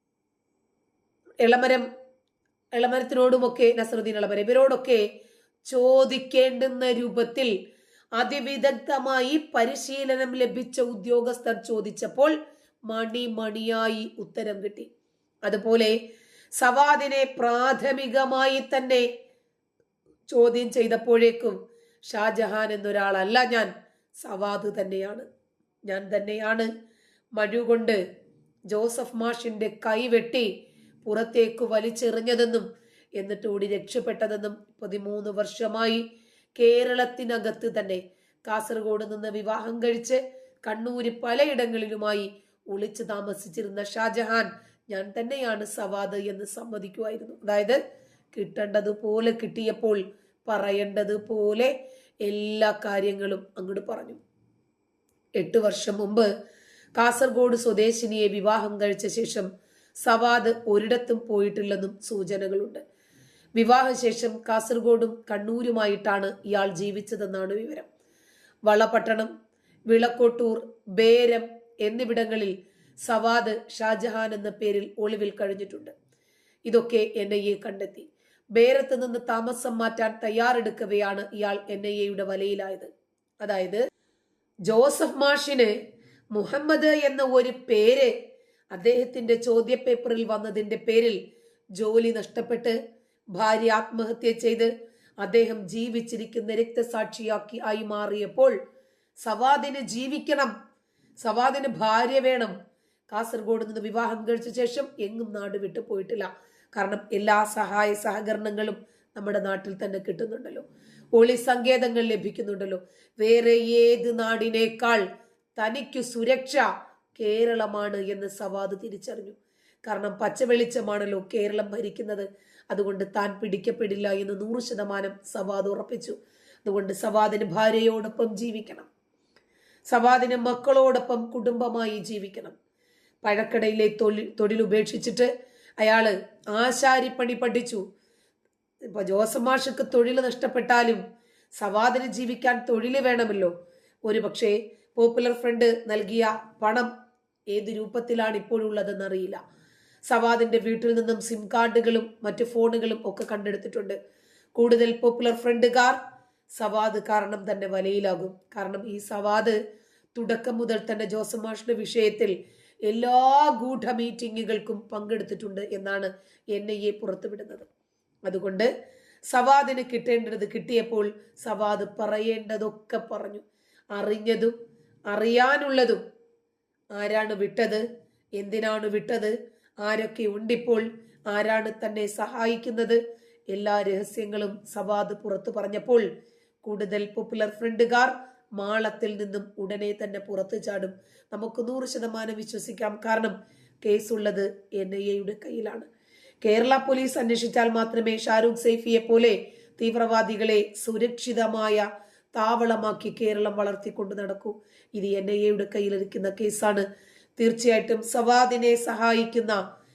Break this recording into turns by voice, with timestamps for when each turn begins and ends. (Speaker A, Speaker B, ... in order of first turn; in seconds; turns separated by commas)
Speaker A: 1.4-1.9, Speaker A: 2.7-5.0, Speaker A: 5.7-7.5, Speaker A: 8.2-12.3, Speaker A: 12.9-14.9, Speaker A: 15.4-15.9, Speaker A: 16.6-19.0, Speaker A: 20.3-25.2, Speaker A: 25.9-26.7, Speaker A: 27.4-28.0, Speaker A: 28.7-30.5, Speaker A: 31.0-32.6, Speaker A: 33.2-36.0, Speaker A: 36.6-47.8, Speaker A: 48.3-51.7, Speaker A: 52.2-54.2, Speaker A: 55.4-56.3, Speaker A: 57.0-59.5, Speaker A: 60.0-62.8, Speaker A: 63.6-67.9, Speaker A: 68.7-69.3, Speaker A: 69.9-75.9, Speaker A: 76.7-82.9, Speaker A: 83.4-83.8, Speaker A: 84.7-85.7, Speaker A: 86.3-88.1, Speaker A: 88.7-91.2, Speaker A: 91.8-92.8, Speaker A: 93.3-98.5, Speaker A: 99.2-100.5, Speaker A: 101.2-102.5, Speaker A: 103.1-115.0, Speaker A: 115.6-128.9, Speaker A: 129.9-132.5, Speaker A: 133.2-137.8, Speaker A: 138.9-141.0, Speaker A: 141.6-143.5, Speaker A: 144.1-146.9, Speaker A: 147.5-149.4, Speaker A: 150.1-154.0, Speaker A: 154.6-156.0, Speaker A: 156.6-159.6, Speaker A: 160.1-162.3, Speaker A: 162.8-167.7, Speaker A: 168.2-168.7, Speaker A: 169.3-174.5, Speaker A: 175.1-176.0, Speaker A: 176.9-177.8, Speaker A: 178.4-183.0, Speaker A: 183.5-186.1, Speaker A: 186.6-195.9, Speaker A: 196.4-206.8, Speaker A: 207.4-209.6